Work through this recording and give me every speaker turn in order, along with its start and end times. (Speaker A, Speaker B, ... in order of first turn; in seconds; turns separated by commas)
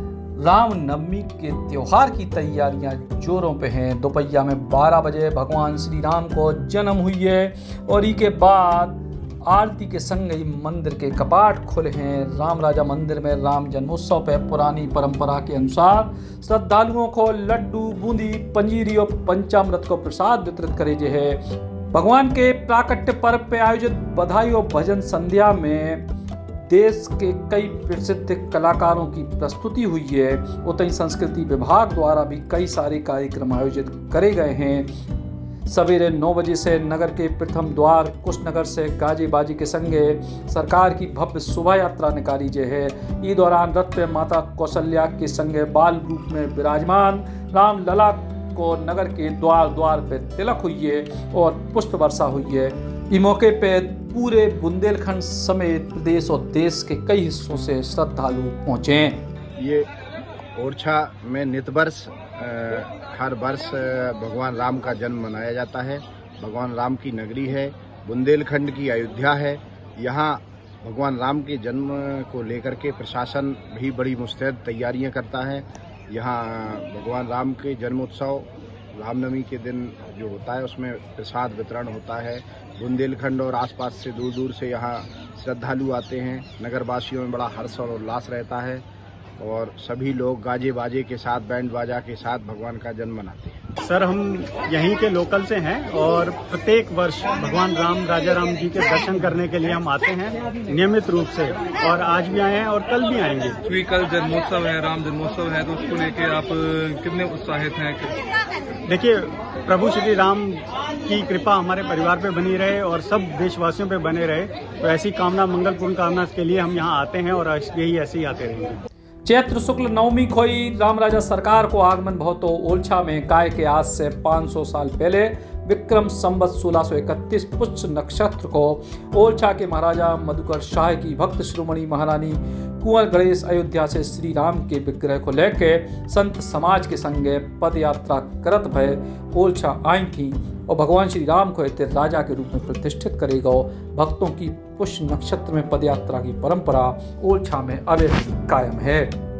Speaker A: 0.4-26.0, Speaker A: 26.7-34.9, Speaker A: 35.6-59.2, Speaker B: 59.6-59.9, Speaker B: 60.6-88.8, Speaker B: 89.4-93.6, Speaker C: 93.8-103.6, Speaker D: 103.6-108.2, Speaker C: 108.8-118.8, Speaker A: 119.2-149.1